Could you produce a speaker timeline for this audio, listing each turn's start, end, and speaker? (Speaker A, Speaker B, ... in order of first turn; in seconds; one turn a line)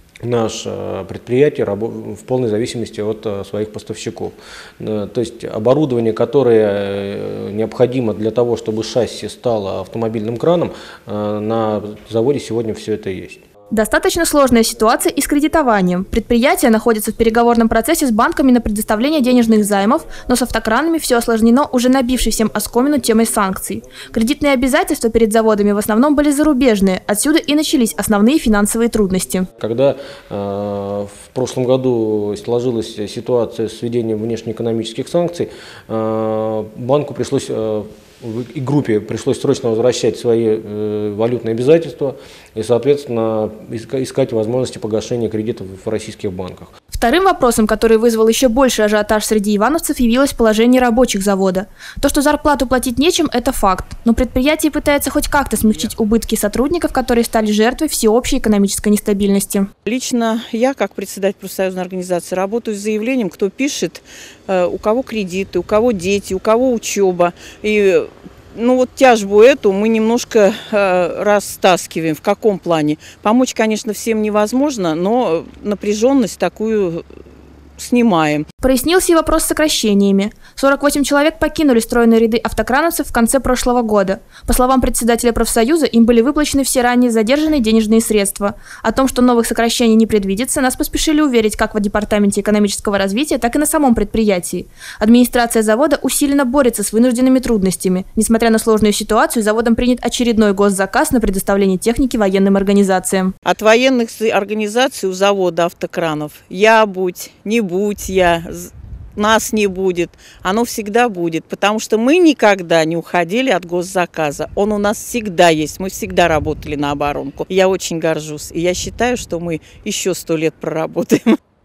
Speaker A: 0.2-13.4
Speaker B: 13.7-29.5
Speaker A: 29.6-46.7
Speaker B: 46.9-59.7
Speaker C: 59.9-77.0
Speaker C: 77.8-78.4
Speaker B: 78.6-103.3
Speaker C: 103.4-121.3